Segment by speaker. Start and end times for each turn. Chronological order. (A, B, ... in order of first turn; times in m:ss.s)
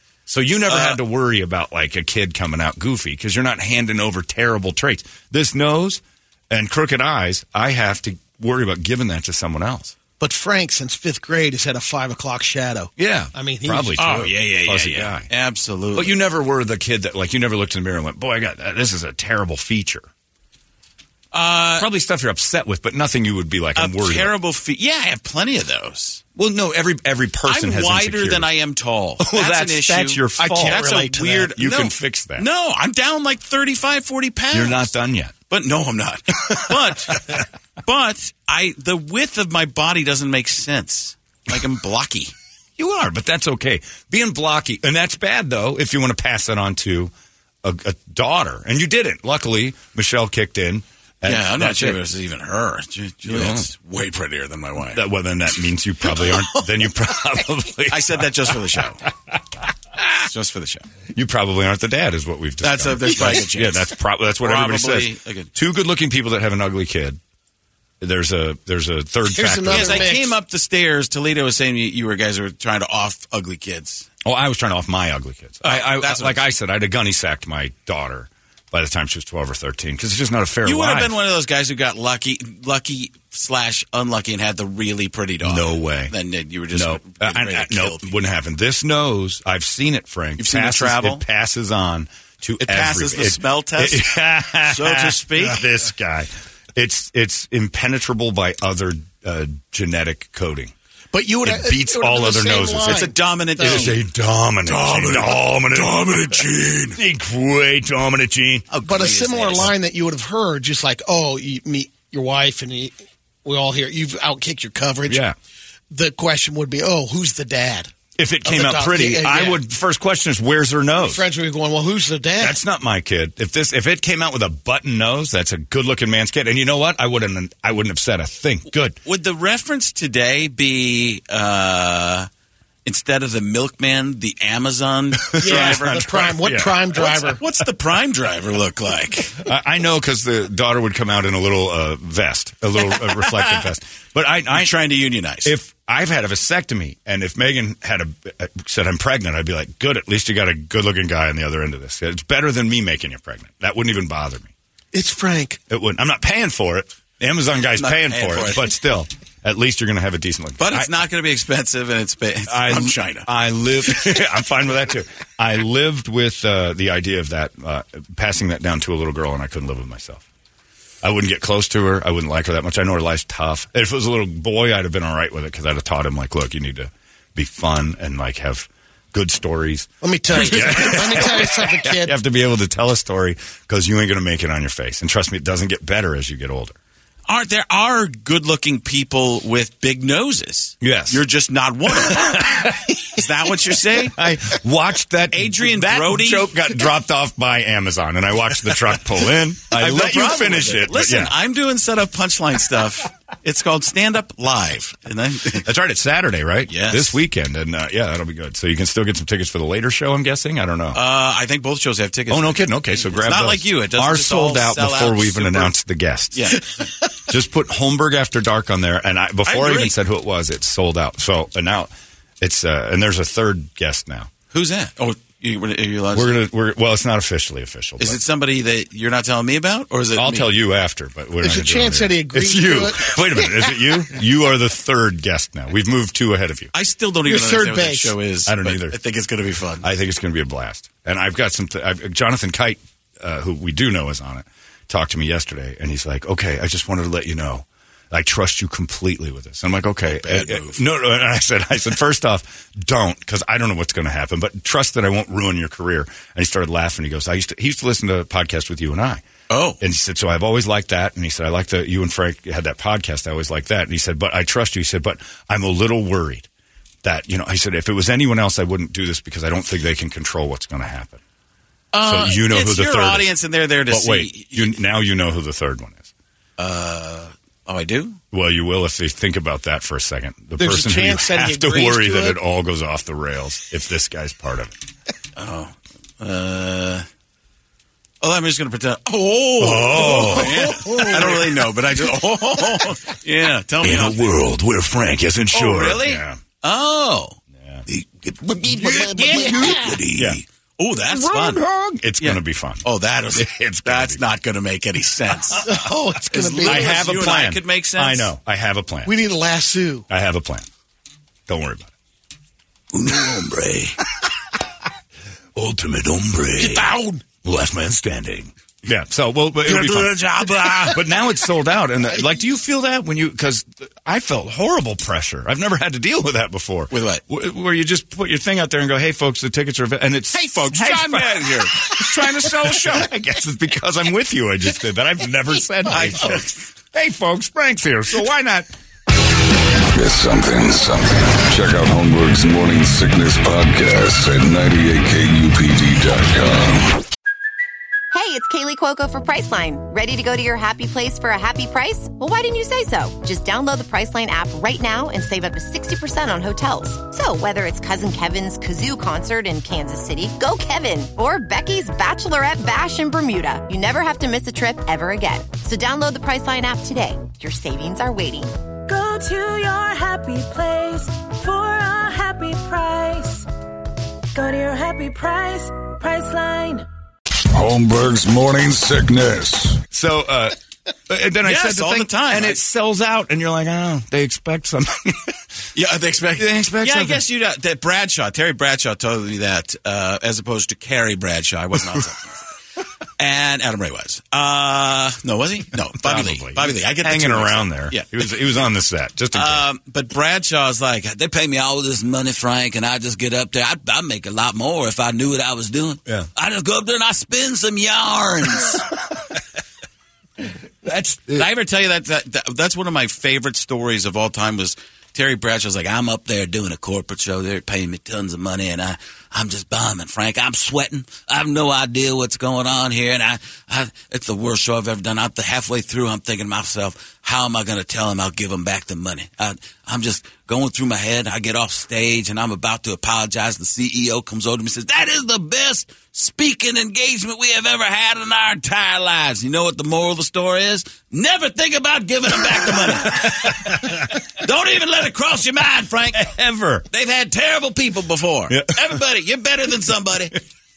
0:00.3-0:10.0 A
0:00.7-0:01.0 B
0:10.2-0:14.3 C
0:13.0-0:15.3 A
0:14.0-0:16.1 B
0:15.9-0:20.1 A
0:21.3-0:21.9 B
0:21.8-0:24.3 A
0:23.8-0:26.2 B
0:26.4-0:28.5 A
0:27.5-0:34.8 B
0:29.2-0:30.8 A
0:30.4-0:31.5 C
0:31.6-0:32.5 A
0:34.5-0:35.3 A
0:35.5-0:42.3 B
0:37.1-0:37.4 A
0:42.8-0:52.0 A
0:51.2-0:55.0 B
0:53.2-0:53.7 A
0:54.9-0:58.6 A
0:57.9-0:59.0 B
1:00.2-1:00.9 B
1:01.1-1:07.2 A
1:02.6-1:05.5 B
1:08.0-1:10.2 A
1:09.3-1:10.4 C
1:09.7-1:14.1 B
1:14.2-1:21.1 A
1:15.6-1:16.5 B
1:20.6-1:28.2 B
1:25.4-1:26.1 A
1:26.7-1:40.7 A
1:30.4-1:31.2 B
1:32.6-1:35.6 B
1:41.1-1:44.0 C
1:41.4-1:46.4 A
1:42.8-1:44.0 B
1:44.7-1:47.0 B
1:47.0-1:48.7 A
1:48.7-1:49.7 B
1:48.8-1:55.2 C
1:55.1-1:55.4 A
1:55.9-1:57.9 C
1:58.2-2:01.2 A
1:58.5-1:59.6 C
2:01.0-2:02.6 C
2:02.4-2:09.0 A
2:09.0-2:12.3 B
2:12.8-2:16.3 B
2:15.4-2:17.0 A
2:15.4-2:17.4 C
2:17.0-2:19.4 B
2:19.4-2:24.7 A
2:22.9-2:23.7 B
2:24.5-2:25.5 B
2:25.4-2:34.5 A
2:34.9-2:35.6 C
2:35.7-2:41.0 A
2:37.8-2:38.7 B
2:40.6-2:43.3 B
2:42.5-2:50.2 A
2:51.0-3:06.8 A
3:00.0-3:02.2 C
3:07.3-3:14.2 B
3:10.8-3:11.2 A
3:12.0-3:13.0 A
3:14.2-3:21.4 A
3:15.3-3:16.6 B
3:19.7-3:25.7 B
3:25.6-3:31.0 A
3:26.7-3:27.2 B
3:30.9-3:35.7 B
3:32.3-3:36.6 A
3:36.3-3:36.9 B
3:37.3-3:44.3 A
3:39.5-3:40.0 B
3:44.5-3:46.4 B
3:46.1-3:48.2 A
3:48.0-3:50.5 B
3:50.2-3:56.7 A
3:51.4-3:53.8 C
3:56.7-3:59.8 B
3:57.3-3:58.2 C
3:58.5-3:59.0 A
3:59.8-4:19.2 A
4:10.1-4:10.8 B
4:19.5-4:19.8 B
4:19.8-4:26.5 A
4:27.0-4:31.2 A
4:31.9-4:34.7 B
4:32.0-4:33.3 A
4:33.9-4:36.1 A
4:36.6-4:38.2 B
4:38.3-4:44.8 A
4:40.6-4:42.4 C
4:45.4-4:47.1 B
4:48.2-4:54.3 B
4:49.6-4:51.4 A
4:50.0-4:51.4 C
4:53.8-4:56.4 A
4:55.5-4:57.4 B
4:57.9-5:01.6 B
4:58.7-5:00.4 A
4:58.7-5:00.0 C
5:01.0-5:04.2 A
5:02.2-5:05.7 B
5:05.6-5:07.1 C
5:06.3-5:08.3 B
5:06.6-5:09.2 A
5:09.1-5:10.1 C
5:10.1-5:10.7 A
5:11.5-5:11.9 A
5:12.9-5:14.0 B
5:15.6-5:16.9 A
5:16.6-5:17.3 C
5:17.4-5:38.7 A
5:19.7-5:20.9 B
5:26.9-5:27.2 B
5:30.3-5:33.1 B
5:35.9-5:36.7 B
5:39.9-5:47.0 D
5:48.1-6:08.5 E
6:08.9-6:13.5 F
6:14.3-6:16.8 F
6:17.5-6:19.8 D
6:19.9-6:20.6 A
6:21.1-6:25.4 A
6:21.4-6:22.6 B
6:25.8-6:32.4 B
6:26.4-6:27.2 A
6:33.2-6:38.2 B
6:36.0-6:39.6 A
6:39.3-6:48.9 B
6:50.8-6:51.5 A
6:51.3-7:26.3 B
7:22.6-7:24.1 A
7:26.1-7:26.9 A
7:26.9-7:30.4 B
7:28.5-7:29.0 A